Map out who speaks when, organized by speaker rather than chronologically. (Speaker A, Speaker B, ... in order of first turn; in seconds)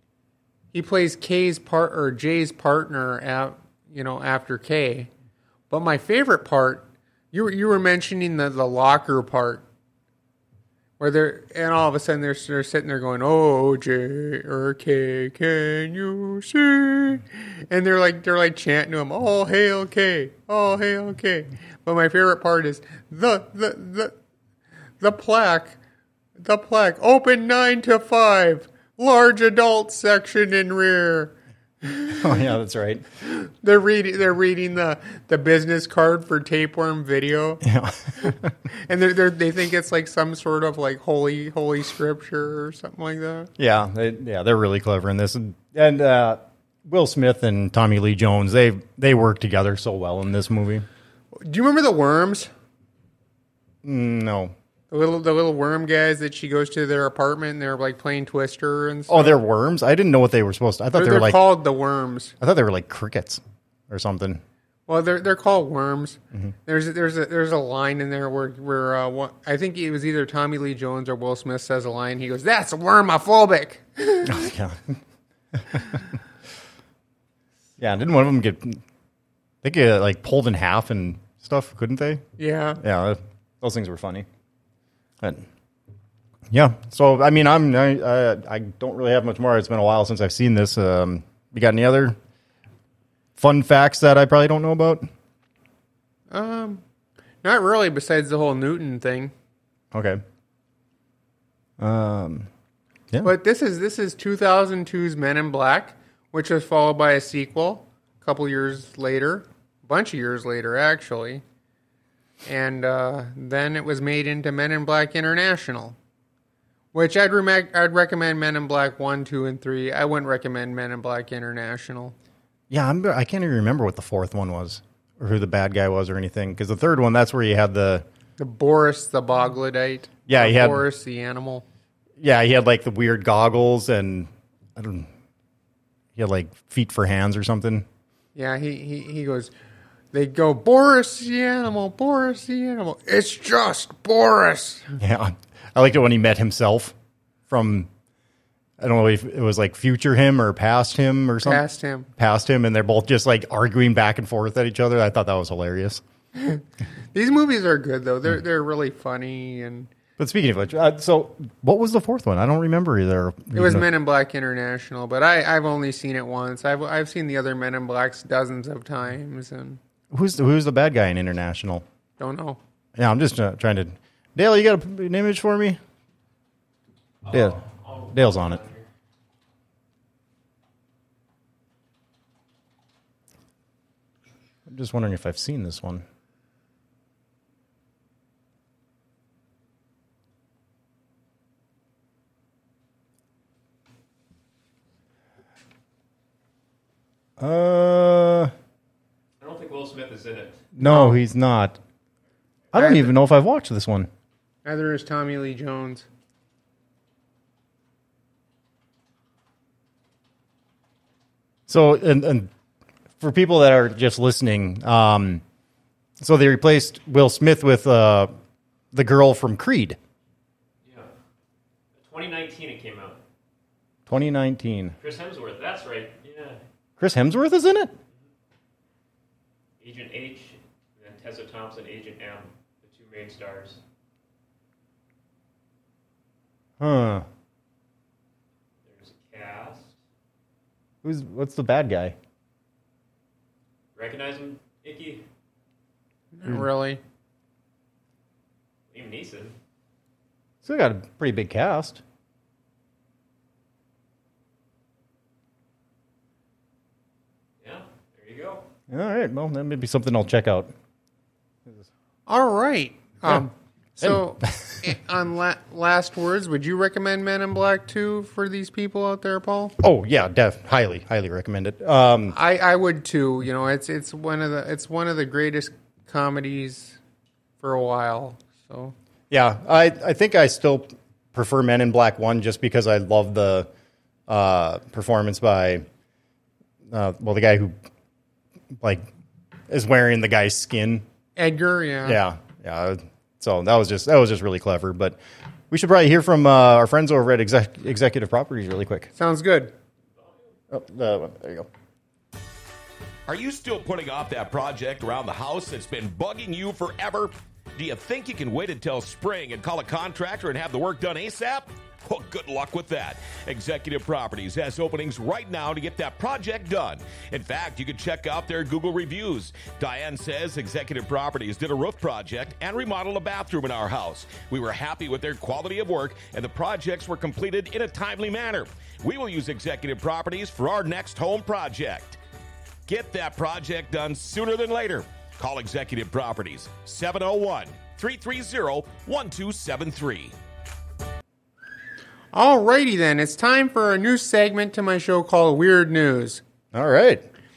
Speaker A: 0.7-5.1, 5.7-9.7, 11.0-24.1, 25.0-25.8, 26.4-32.4, 33.2-37.6, 38.2-43.5, 51.4-52.5, 54.9-59.4, 60.9-62.4, 64.9-74.5, 82.4-82.8, 96.3-96.8, 97.4-99.3, 103.2-111.4, 112.5-116.0, 116.9-122.2, 128.4-131.6, 138.3-139.5, 140.1-145.0, 151.4-152.1, 156.3-159.9, 163.5-169.8, 172.2-172.6, 200.8-201.2, 202.8-203.1, 204.7-206.1, 246.3-247.0, 262.3-269.7, 272.3-277.0, 277.6-278.9, 291.4-292.2, 299.2-299.7, 342.3-346.4
Speaker B: 32.1-33.0, 37.6-38.5, 43.6-50.9, 53.8-54.5, 59.1-61.4, 62.4-64.4, 74.2-75.0, 75.5-76.0, 77.8-78.8, 79.6-82.2, 82.8-84.3, 86.5-92.2, 93.4-95.1, 99.9-100.2, 101.8-102.5, 122.7-128.1, 130.3-130.8, 132.2-135.1, 136.2-137.9, 145.0-146.9, 147.5-147.9, 148.8-151.7, 152.2-156.0, 160.2-163.8, 170.1-171.8, 173.0-175.8, 177.3-178.6, 184.7-186.0, 197.4-198.5, 200.8-201.8, 202.7-204.1, 211.7-212.5, 213.2-215.4, 216.2-218.3, 218.9-220.0, 224.1-224.9, 227.0-227.9, 236.8-237.3, 241.0-242.2, 250.6-252.0, 258.9-260.7, 264.0-264.8, 269.8-272.4, 279.3-283.7, 284.3-285.9, 286.9-287.7, 288.7-289.1, 289.7-291.1, 292.1-295.2, 295.7-299.1, 300.7-301.7, 346.7-347.2
Speaker C: 177.2-178.8, 199.4-200.7, 220.8-221.1, 222.0-223.2, 225.0-226.6, 229.8-233.8, 238.8-239.9, 243.9-245.2, 248.9-249.5, 257.6-258.6
Speaker D: 303.3-332.2, 332.9-340.4